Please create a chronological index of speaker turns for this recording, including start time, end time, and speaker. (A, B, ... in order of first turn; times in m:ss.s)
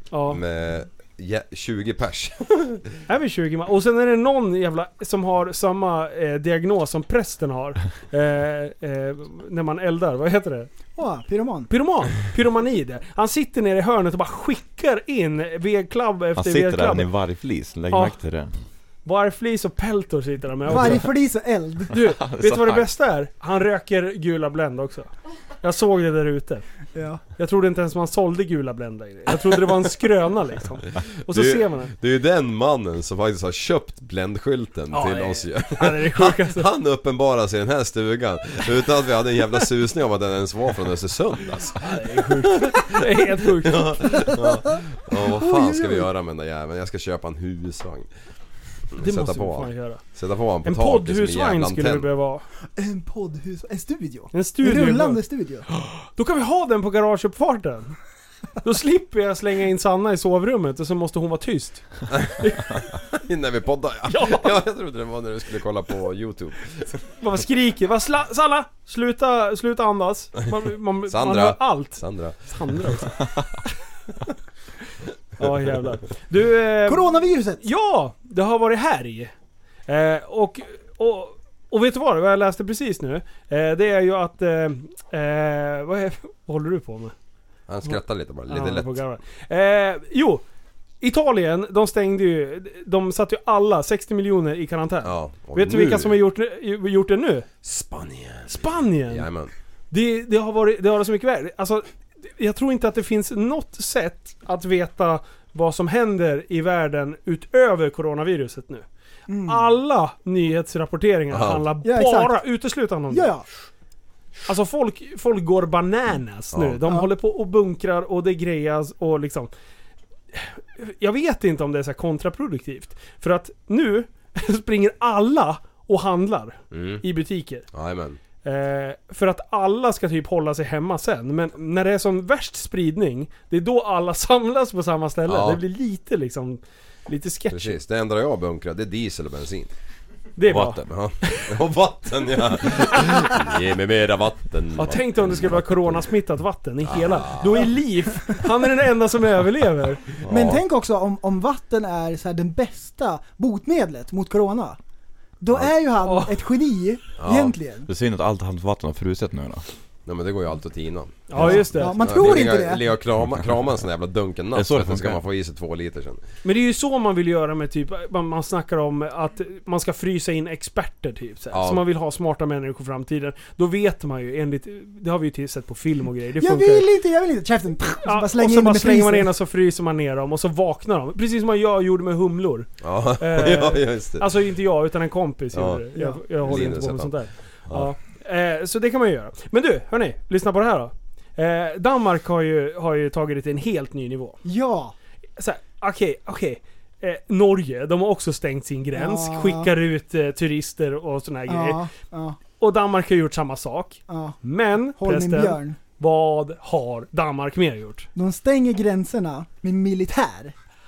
0:00.1-0:00.4 A
0:00.3-0:02.8 B
0:03.1-0:10.7 A
0:11.0-0:11.7 C
0:11.7-0:17.1 A
0:16.4-0:18.5 D
0:17.9-0:18.2 A
0:19.0-0:21.1 A
0:20.7-0:21.9 C
0:21.9-0:25.1 A
0:22.0-0:22.9 D
0:25.6-0:26.6 A
0:26.9-0:27.2 C
0:27.4-0:31.9 A
0:31.3-0:43.0 B
0:34.9-0:36.7 A
0:41.8-0:44.2 A
0:43.6-0:48.1 B
0:44.2-0:44.6 C
0:45.1-0:46.1 C
0:48.9-0:52.1 B
0:49.0-0:50.0 A
0:50.6-0:52.4 A
0:52.8-0:55.6 C
0:54.3-0:58.0 A
0:58.6-1:02.8 A
1:02.1-1:06.9 B
1:04.1-1:04.5 A
1:07.2-1:13.3 A
1:11.1-1:12.5 B
1:15.4-1:19.3 A
1:16.8-1:17.6 C
1:19.9-1:27.1 A
1:27.7-1:29.0 B
1:27.9-1:30.4 A
1:31.0-1:37.5 A
1:35.0-1:36.2 B
1:37.6-1:39.5 B
1:38.5-1:39.3 A
1:39.9-1:41.8 A
1:42.4-1:48.8 A
1:49.3-1:49.7 C
1:49.4-1:53.3 A
1:51.3-1:51.6 B
1:51.8-1:52.4 C
1:53.1-1:53.4 C
1:54.5-1:59.5 A
1:56.5-1:56.8 B
2:00.3-2:07.6 A
2:06.7-2:07.0 B
2:07.7-2:08.2 B
2:08.4-2:17.8 A
2:15.3-2:15.6 B
2:17.5-2:19.7 B
2:20.4-2:21.4 A
2:20.5-2:20.8 D
2:20.5-2:26.0 B
2:22.6-2:23.4 A
2:24.8-2:30.2 A
2:26.9-2:27.7 B
2:30.2-2:30.6 B
2:30.3-2:34.8 C
2:35.4-2:37.9 C
2:36.0-2:36.4 A
2:37.2-2:37.5 B
2:37.8-2:39.6 D
2:40.0-2:46.2 B
2:41.3-2:42.0 A
2:41.4-2:42.8 C
2:44.5-2:45.2 D
2:46.4-2:56.9 A
2:51.5-2:51.8 B
2:56.4-2:59.3 C
2:58.0-3:02.7 A
3:02.8-3:04.3 B
3:03.2-3:14.4 A
3:05.5-3:05.8 B
3:06.4-3:07.9 B
3:14.4-3:14.9 C
3:15.4-3:21.8 A
3:18.9-3:19.7 C
3:21.5-3:22.4 C
3:22.6-3:28.1 A
3:24.1-3:24.4 C
3:25.0-3:25.8 C
3:28.1-3:30.5 C